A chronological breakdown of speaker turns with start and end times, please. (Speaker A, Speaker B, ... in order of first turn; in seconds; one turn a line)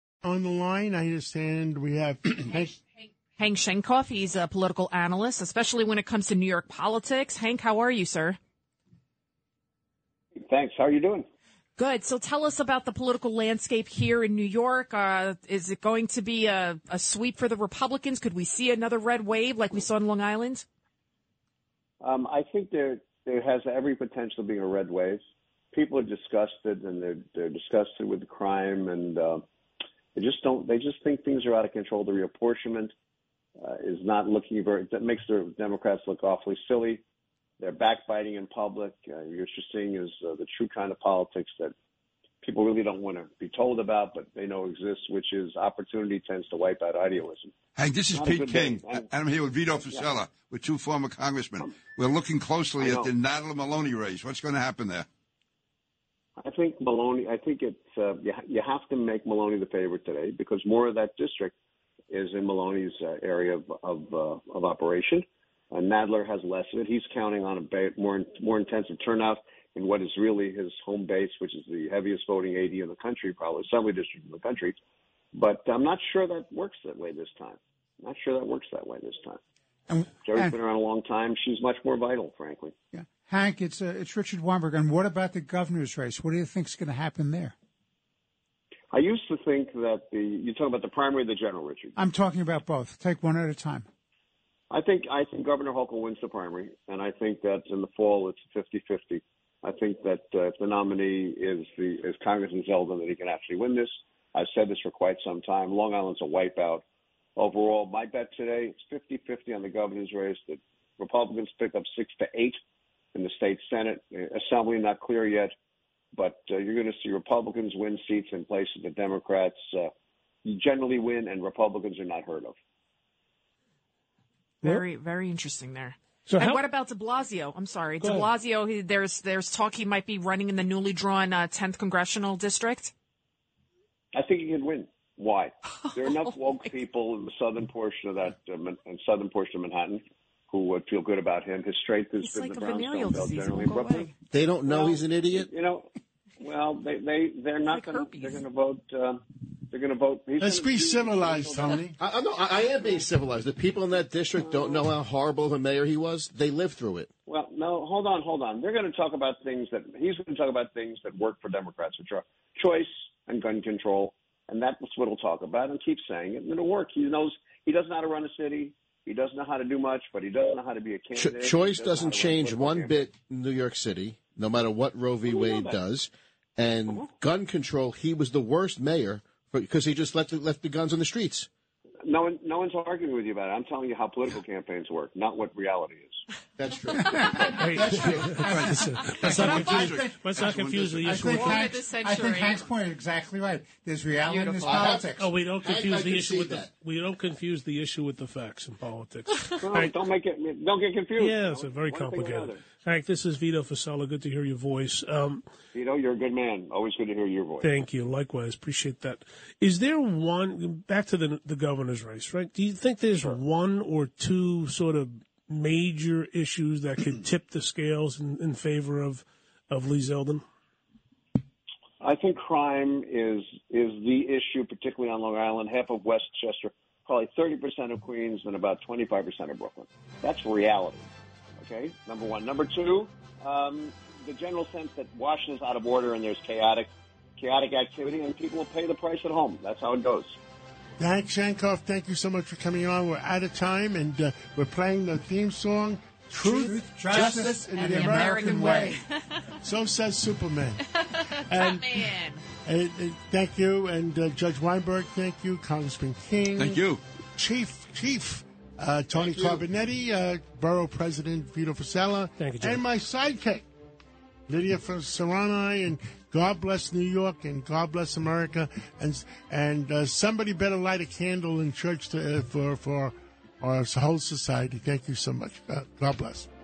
Speaker A: 0.2-2.7
Speaker B: 2.5-8.4
Speaker C: 10.4-11.3
Speaker B: 11.8-20.6
Speaker C: 22.0-25.2
Speaker C: 25.7-29.4
Speaker C: 30.1-32.9
Speaker C: 33.6-37.0
Speaker C: 37.6-41.7
Speaker C: 42.4-47.5
Speaker D: 47.8-55.1
Speaker C: 48.1-49.1
Speaker C: 52.8-53.1
Speaker C: 56.4-61.5
Speaker C: 62.1-74.8
Speaker C: 75.3-79.4
Speaker E: 79.9-80.5
Speaker C: 80.2-82.8
Speaker E: 82.9-87.5
Speaker C: 88.9-91.9
Speaker E: 92.0-93.8
Speaker C: 94.7-106.8
Speaker C: 107.4-112.6
Speaker C: 113.1-115.5
Speaker C: 116.1-119.9
Speaker C: 120.4-122.5
Speaker B: 124.6-132.9
Speaker F: 126.3-126.6
Speaker F: 128.0-128.3
Speaker C: 134.1-144.1
Speaker B: 135.8-136.7
Speaker B: 142.2-144.1
Speaker G: 144.3-145.5
Speaker C: 144.7-151.8
Speaker B: 147.6-148.4
Speaker A: 150.4-152.0
Speaker G: 152.0-157.1
Speaker C: 154.4-154.9
Speaker C: 157.2-173.1
Speaker G: 171.2-181.5
Speaker C: 175.2-175.8
Speaker C: 182.0-186.2
Speaker G: 186.6-187.5
Speaker E: 187.0-188.8
Speaker F: 187.6-191.6
Speaker G: 188.0-188.3
Speaker D: 188.5-191.4
Speaker E: 189.4-190.3
Speaker E: 191.1-195.2
Speaker B: 191.2-192.7
Speaker B: 194.2-194.8
Speaker G: 194.7-196.7
Speaker F: 195.1-200.0
Speaker C: 199.6-202.6
Speaker F: 201.2-205.4
Speaker C: 205.7-207.7
Speaker F: 207.6-220.4
Speaker C: 222.0-231.1
Speaker C: 231.6-240.4
Speaker A: 241.0-248.9
Speaker E: 246.4-249.0
Speaker B: 247.1-249.4
Speaker A: 249.6-250.8
Speaker B: 250.9-252.4
Speaker A: 251.5-252.1
Speaker A: 252.6-256.8
Speaker D: 256.5-257.0
Speaker A: 257.4-263.6
Speaker G: 259.1-259.6
Speaker F: 262.4-262.8
Speaker A: 264.5-276.5